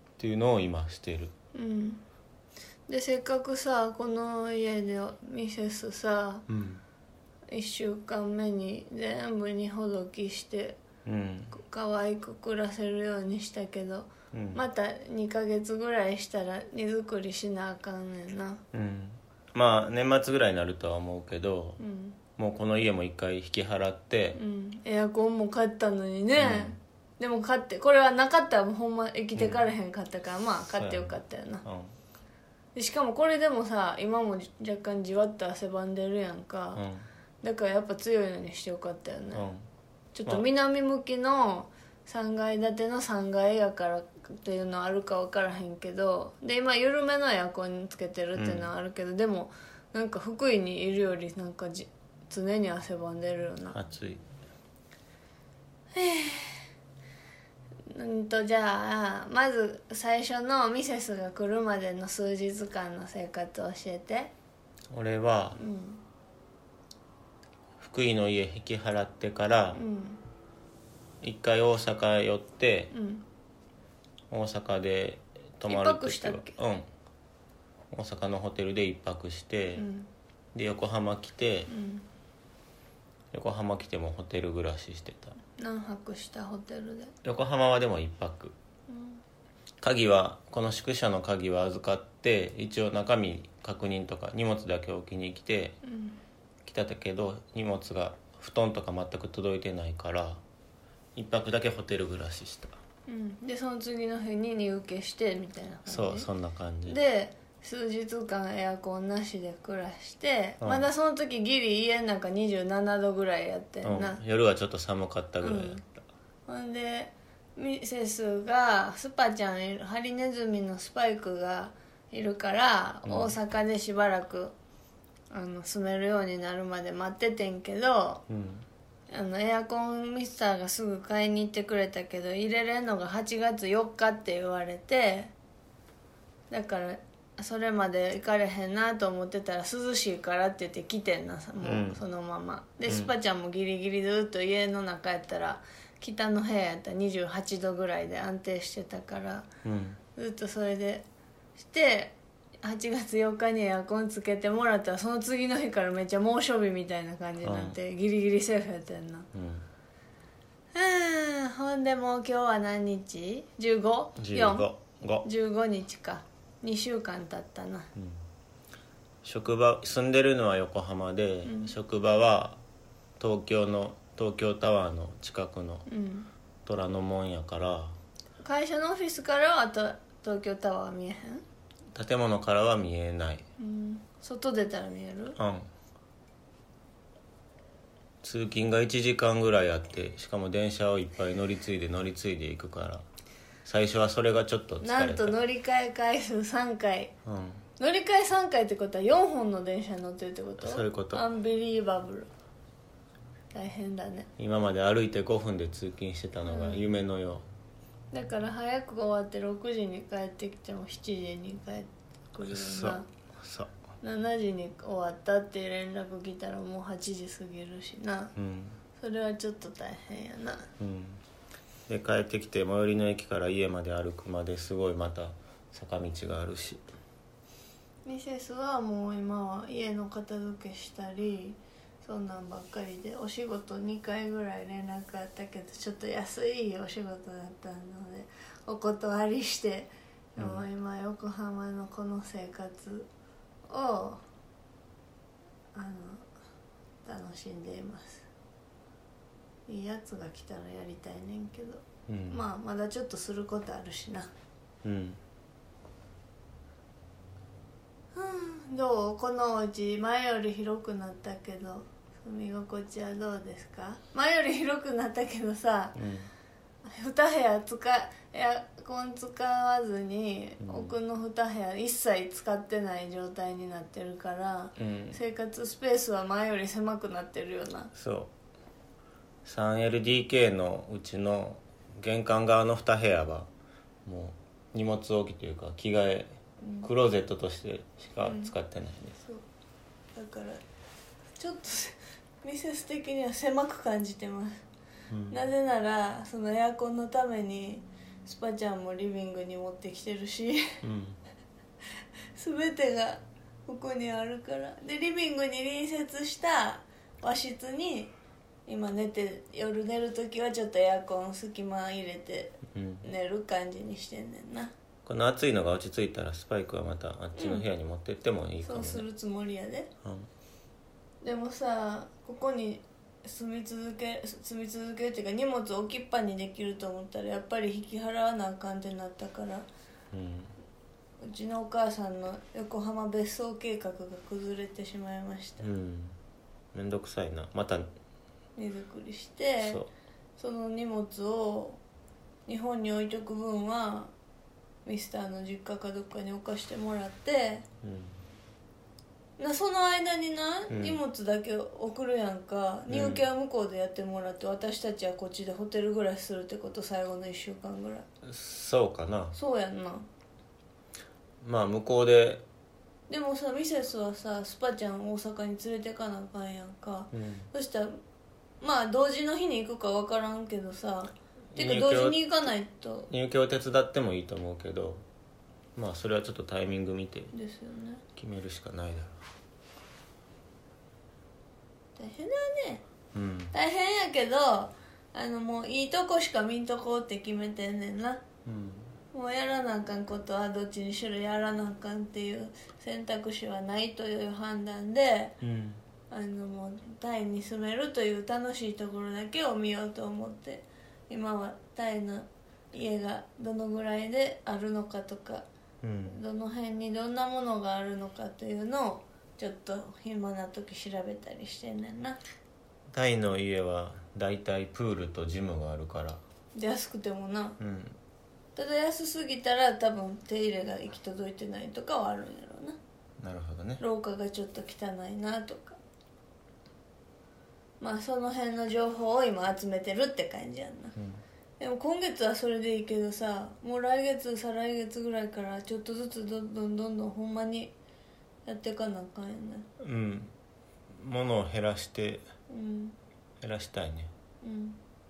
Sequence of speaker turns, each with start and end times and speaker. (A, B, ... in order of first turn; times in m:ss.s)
0:00.2-0:01.3 A
0:01.5-0:02.0 B
0:02.9-0:06.5 B
0:06.5-0:06.8 A
0:07.5-0:10.8 B
0:11.0-0:11.5 A
0:11.5-0:18.6 B
0:14.3-0:14.6 A
0:18.7-0:21.8 A
0:21.8-0:22.2 B
0:22.4-0:24.4 A
0:24.4-0:31.6 B
0:26.4-0:26.8 A
0:29.4-0:29.7 A
0:30.8-0:31.9 A
0:32.8-0:36.8 B
0:36.8-0:37.1 A
0:37.4-0:39.5 B
0:39.3-0:39.6 A
0:40.2-0:53.8 B
0:48.4-0:48.7 A
0:53.7-0:54.2 A
0:55.9-0:56.7 B
0:57.9-1:04.3 B
1:04.9-1:05.6 A
1:05.6-1:06.0 B
1:07.8-1:09.8 A
1:09.7-1:10.2 B
1:11.2-1:12.9 A
1:12.9-1:13.2 B
1:14.3-1:16.9 A
1:15.7-1:16.6 B
1:17.9-1:19.8 A
1:19.8-1:20.1 B
1:20.6-1:21.7 A
1:21.7-1:22.1 B
1:23.3-1:25.4 A
1:25.6-1:27.1 B
1:27.2-1:28.6 A
1:28.9-1:29.2 B
1:29.8-1:35.8 A
1:35.8-1:36.2 B
1:36.7-1:40.4 A
1:41.2-1:42.8 A
1:43.1-1:46.3 B
1:45.9-1:47.0 A
1:46.9-1:54.2 B
1:50.6-1:50.9 A
1:53.8-1:56.0 A
1:55.4-1:55.8 B
1:56.5-2:04.5 B
2:03.1-2:03.4 A
2:05.3-2:08.2 B
2:08.3-2:08.6 A
2:09.1-2:15.3 B
2:16.5-2:29.5 B
2:21.6-2:22.0 A
2:29.6-2:30.0 A
2:30.2-2:31.0 B
2:31.6-2:39.3 B
2:37.4-2:37.8 A
2:39.3-2:39.7 A
2:40.7-2:44.7 B
2:44.2-2:45.3 A
2:45.2-2:47.9 B
2:49.2-2:52.6 A
2:51.4-2:51.7 B
2:53.2-2:55.9 A
2:55.9-2:56.3 B
2:56.6-2:58.0 A
2:58.4-3:01.4 B
3:02.0-3:03.4 A
3:03.6-3:05.4 B
3:05.4-3:05.7 A
3:08.2-3:13.0 A
3:13.6-3:15.4 A
3:14.8-3:17.1 B
3:17.2-3:17.6 A
3:17.8-3:22.3 B
3:20.6-3:21.2 A
3:23.5-3:24.3 B
3:24.4-3:27.4 A
3:26.4-3:26.8 B
3:28.1-3:33.1 B
3:32.4-3:33.7 A
3:34.0-3:38.3 B
3:38.4-3:38.8 A
3:39.0-3:40.7 B
3:40.8-3:41.2 A
3:41.9-3:46.8 A
3:48.1-4:03.1 B
4:00.4-4:00.6 A
4:03.7-4:04.2 B
4:05.8-4:06.3 B
4:07.0-4:08.3 B
4:09.7-4:14.3 B
4:12.1-4:12.4 A
4:14.8-4:15.2 A
4:18.1-4:26.0 B
4:26.0-4:26.3 A
4:26.8-4:37.9 B
4:30.6-4:31.0 A
4:34.8-4:35.2 A
4:38.0-4:38.3 A
4:39.4-4:43.5 A
4:44.0-4:49.2 A
4:46.6-4:46.9 B
4:48.2-4:48.5 B
4:50.2-4:50.6 B
4:51.4-4:54.6 B
4:55.1-4:55.4 A
4:55.3-5:00.6 B
5:00.8-5:01.2 A
5:02.4-5:08.1 B
5:08.7-5:14.7 B
5:12.7-5:13.1 A
5:15.1-5:19.0 A
5:17.4-5:17.7 B
5:18.6-5:19.9 B
5:21.2-5:29.7 B
5:30.1-5:30.5 A
5:31.2-5:35.7 B
5:35.6-5:36.2 A
5:36.7-5:37.9 A
5:38.6-5:39.8 B
5:39.6-5:39.9 A
5:40.4-5:41.8 B
5:42.5-5:44.1 B
5:44.8-5:47.6 B
5:47.8-5:48.2 A
5:49.4-5:58.1 B
5:50.7-5:51.0 A
5:52.9-5:53.2 A
5:58.2-5:59.4 A
5:59.3-6:00.0 B
6:01.4-6:02.4 A
6:03.1-6:07.9 B
6:07.1-6:07.5 A
6:08.6-6:13.1 B
6:11.5-6:12.2 A
6:13.1-6:15.0 A
6:15.8-6:17.3 A
6:17.3-6:18.0 B
6:18.2-6:19.2 A
6:22.0-6:22.8 B
6:23.1-6:23.5 A
6:23.5-6:28.2 B
6:28.4-6:28.9 A
6:29.1-6:35.4 B
6:35.4-6:35.8 A
6:36.1-6:45.4 B
6:45.8-6:46.2 A
6:46.1-6:52.2 B
6:52.9-6:56.2 A
6:56.6-6:57.6 B
6:57.6-6:58.0 A
6:58.6-7:02.8 B
7:03.2-7:03.8 A
7:03.8-7:05.8 B
7:07.8-7:11.0 B
7:11.0-7:11.2 A
7:11.6-7:17.7 B
7:18.5-7:19.7 B
7:19.8-7:20.3 A
7:20.9-7:22.2 A
7:22.5-7:23.0 B
7:23.4-7:24.1 A
7:24.4-7:24.8 B